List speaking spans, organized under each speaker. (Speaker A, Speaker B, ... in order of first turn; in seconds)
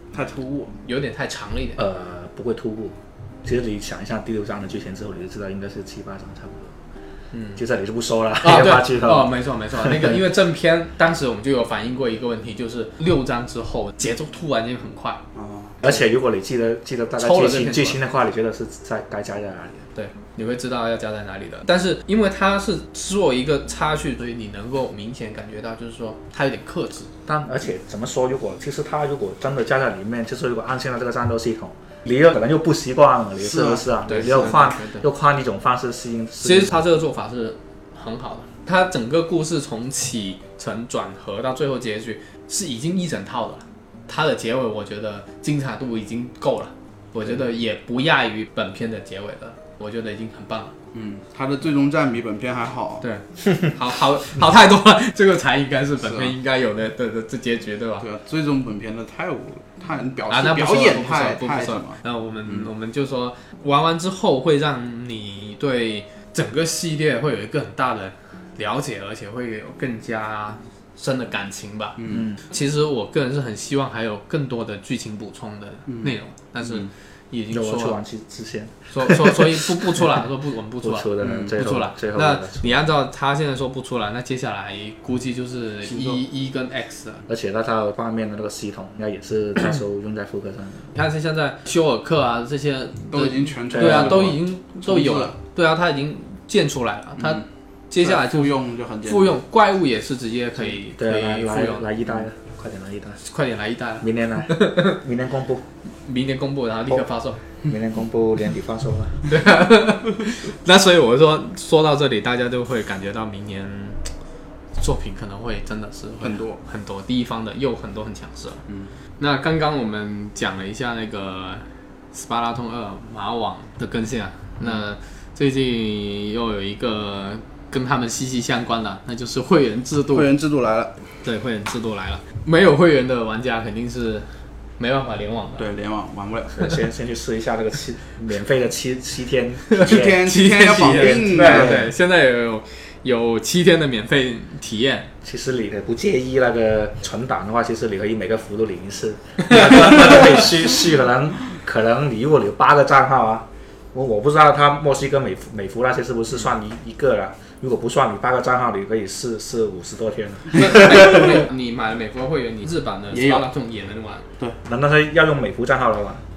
Speaker A: 0.1-0.7, 15.3-15.8, 33.4-33.8, 50.9-53.0, 56.0-56.3, 58.0-62.7, 72.0-72.3, 75.9-76.1, 81.2-81.6, 85.8-86.2, 93.1-95.4, 97.2-97.4, 98.0-99.4, 116.2-116.6, 118.7-118.9, 130.1-130.9, 135.6-136.7, 139.8-141.8, 163.1-163.4
Speaker B: 0.8-1.8, 7.3-7.6, 8.4-15.2, 17.2-18.0, 19.9-27.1, 34.0-35.1, 36.4-50.7, 53.0-58.0, 60.3-78.0, 78.9-87.2, 90.9-101.9, 103.2-105.0, 106.0-107.4, 109.2-114.1, 114.8-118.6, 119.2-130.3, 131.2-134.3, 134.8-135.7, 139.7-145.1, 160.5-164.2
Speaker C: 1.8-6.7, 7.5-10.2, 15.8-19.8, 27.2-36.8, 72.1-72.4, 77.5-80.2, 80.8-82.8, 87.3-90.9, 93.7-94.3, 101.0-103.2, 104.0-105.6, 107.6-109.3, 136.5-141.9, 145.2-161.4, 164.6-166.2